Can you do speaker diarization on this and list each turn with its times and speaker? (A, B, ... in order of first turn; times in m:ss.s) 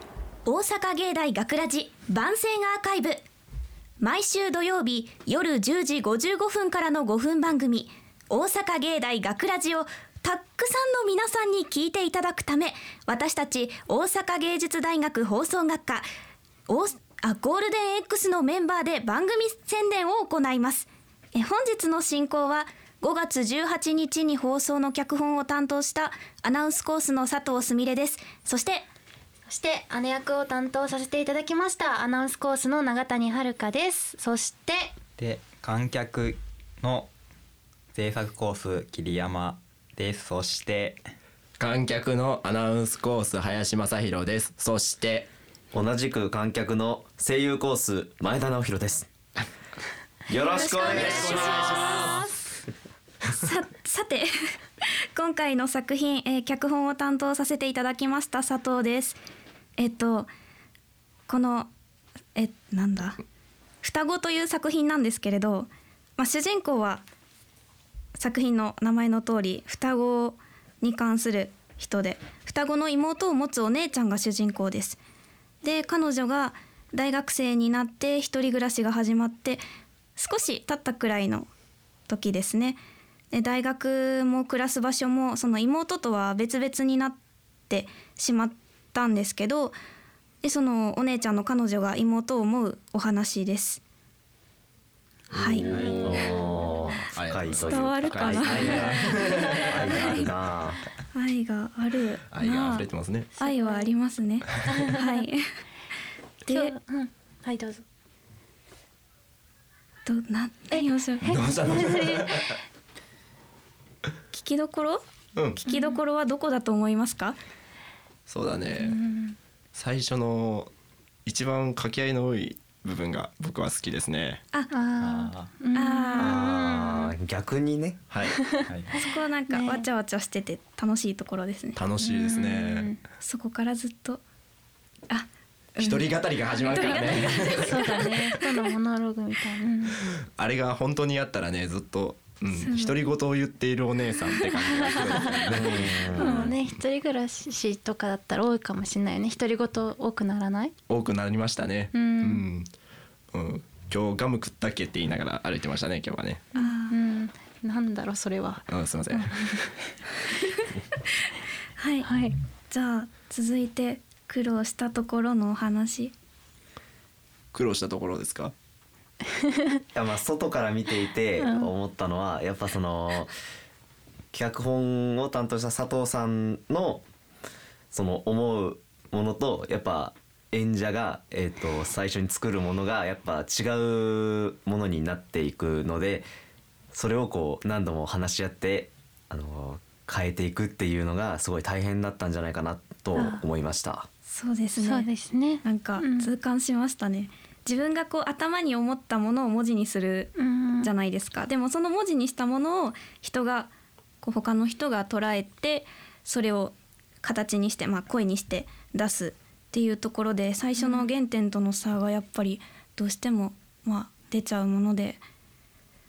0:00.5-0:03.2 A
0:04.0-0:16.1 A
0:16.7-0:28.8 A
0:29.5-0:34.9 B
0:35.2-0:37.1 C
0:37.9-0:41.0 C
0:41.6-0:45.3 D
0:45.7-0:49.1 E
0:50.3-0:51.7 E
0:50.6-0:52.3 A
0:50.8-0:52.3 D
0:53.3-0:54.3 A
0:54.8-0:59.2 A
0:59.8-1:00.3 A
1:01.3-1:01.7 A
1:02.4-1:03.2 A
1:03.8-1:07.0 A
1:08.2-1:15.0 A
1:15.6-1:19.6 A
1:20.2-1:21.5 A
1:22.1-1:22.8 A
1:23.3-1:27.2 A
1:27.7-1:29.8 A
1:30.4-1:33.8 A
1:35.3-1:35.7 A
1:35.3-1:40.8 E
1:35.7-1:36.2 D
1:37.0-1:39.9 D
1:37.6-1:39.2 A
1:41.1-1:45.4 A
1:42.3-1:43.3 D
1:43.4-1:43.9 B
1:44.7-1:45.2 B
1:46.5-1:46.8 A
1:46.5-1:47.8 B
1:50.1-1:51.4 A
1:50.7-1:52.5 B
1:51.2-1:52.5 D
1:54.3-1:55.0 A
1:55.4-1:55.6 D
1:55.6-1:57.4 A
1:55.7-1:56.0 B
1:58.3-1:59.0 D
1:58.8-1:59.4 B
1:59.7-2:00.7 D
2:01.3-2:04.4 D
2:04.7-2:07.1 B
2:05.0-2:05.5 C
2:05.7-2:06.4 A
2:06.2-2:08.0 E
2:08.1-2:08.4 D
2:08.4-2:08.7 B
2:08.7-2:09.0 C
2:08.9-2:11.8 A
2:09.5-2:09.9 B
2:11.8-2:12.9 D
2:12.0-2:13.0 B
2:13.2-2:14.2 A
2:15.1-2:16.1 A
2:15.8-2:18.4 D
2:16.7-2:17.7 A
2:16.7-2:20.1 B
2:19.9-2:25.8 D
2:22.5-2:22.9 B
2:25.0-2:25.5 B
2:25.1-2:26.5 A
2:25.4-2:26.5 E
2:26.1-2:30.7 B
2:30.9-2:32.7 D
2:31.9-2:32.4 B
2:33.3-2:36.5 D
2:36.5-2:39.7 B
2:36.6-2:37.0 A
2:38.7-2:39.5 D
2:40.3-2:41.2 A
2:41.8-2:42.1 A
2:42.0-2:42.4 B
2:42.7-2:46.1 A
2:47.5-2:48.5 D
2:49.4-2:49.8 B
2:49.9-2:53.3 E
2:51.4-2:51.7 B
2:54.3-2:57.0 E
2:57.9-3:06.3 E
3:06.9-3:14.1 E
3:13.2-3:13.4 B
3:14.3-3:15.1 A
3:14.8-3:16.3 B
3:15.6-3:23.7 A
3:20.4-3:20.9 B
3:24.2-3:35.2 A
3:30.8-3:31.1 B